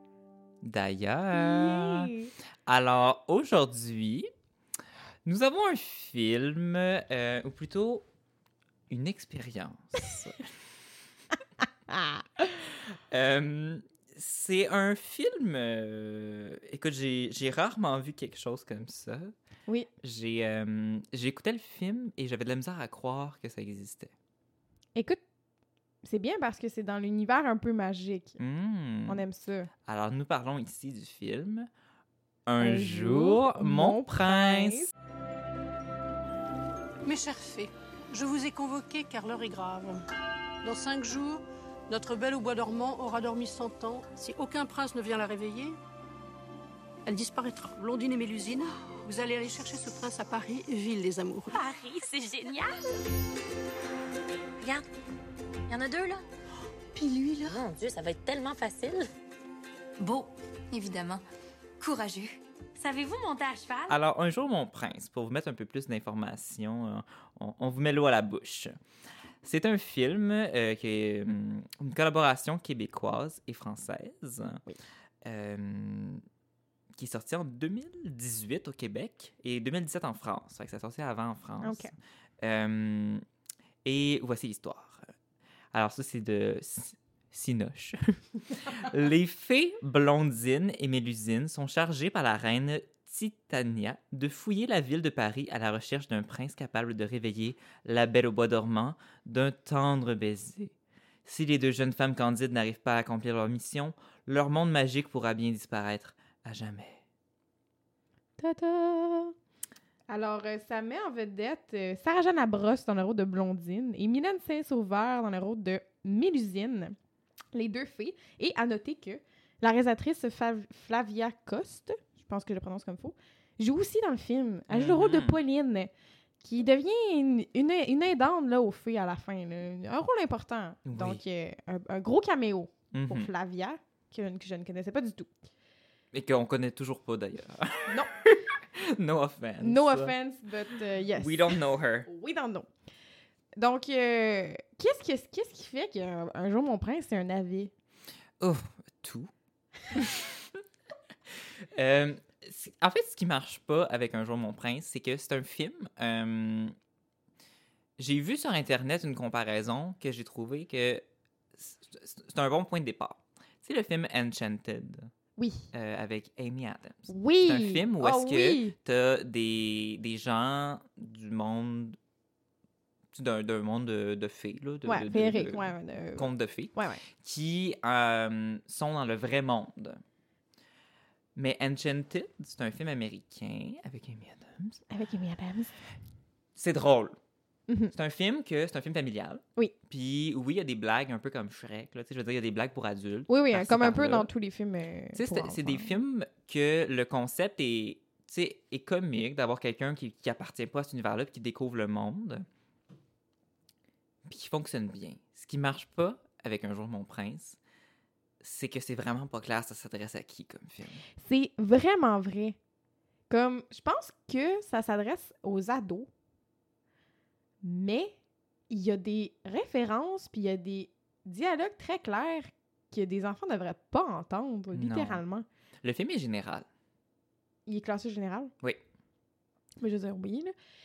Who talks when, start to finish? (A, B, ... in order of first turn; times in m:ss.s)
0:00.6-0:02.1 A
0:01.3-0:02.3 B
0:02.7-0:04.3 A
0:05.2-0:08.0 A
0:08.9-0:10.4 A
0:11.9-0:12.5 B
0:12.8-0:19.3 A
0:20.0-0:24.1 A
0:25.0-0:25.2 B
0:26.0-0:28.4 B
0:28.4-0:29.2 A
0:29.1-0:29.7 B
0:29.8-0:31.7 A
0:32.5-0:34.9 A
0:32.6-0:34.9 B
0:37.1-0:40.0 C
0:40.6-0:45.8 C
0:47.1-0:51.6 C
0:51.5-0:52.8 D
0:55.7-0:56.3 D
0:57.0-0:59.1 D
1:00.0-1:01.2 D
1:01.8-1:04.0 D
1:03.9-1:08.8 A
1:09.4-1:14.6 A
1:15.2-1:16.2 A
1:17.0-1:23.2 A
1:21.6-1:21.9 B
1:23.8-1:25.1 A
1:25.7-1:40.7 A
1:41.2-1:47.0 A
1:48.4-1:49.3 B
1:50.1-1:57.0 B
1:57.5-2:15.3 B
2:04.7-2:05.4 A
2:10.9-2:11.2 A
2:12.9-2:13.3 A
2:16.1-2:20.2 A
2:19.6-2:22.7 B
2:21.1-2:22.1 A
2:23.6-2:27.7 B
2:28.4-2:29.3 A
2:29.9-2:30.6 A
2:31.7-2:36.8 A
2:38.0-2:41.0 A
2:41.6-2:45.1 A
2:45.4-2:45.7 B
2:45.7-2:52.0 A
2:47.1-2:48.8 B
2:53.1-3:00.0 A
2:54.9-2:57.0 B
3:01.4-3:04.8 A
3:04.9-3:05.8 B
3:06.6-3:07.2 A
3:07.7-3:07.9 B
3:07.9-3:14.3 A
3:13.3-3:16.0 B
3:15.1-3:22.5 A
3:24.3-3:27.6 A
3:28.4-3:31.0 A
3:31.2-3:32.6 B
3:33.3-3:36.1 B
3:37.6-3:38.2 B
3:38.7-3:45.5 B
3:44.7-3:45.2 A
3:45.8-3:46.7 A
3:47.7-3:48.5 B
3:49.8-3:50.5 B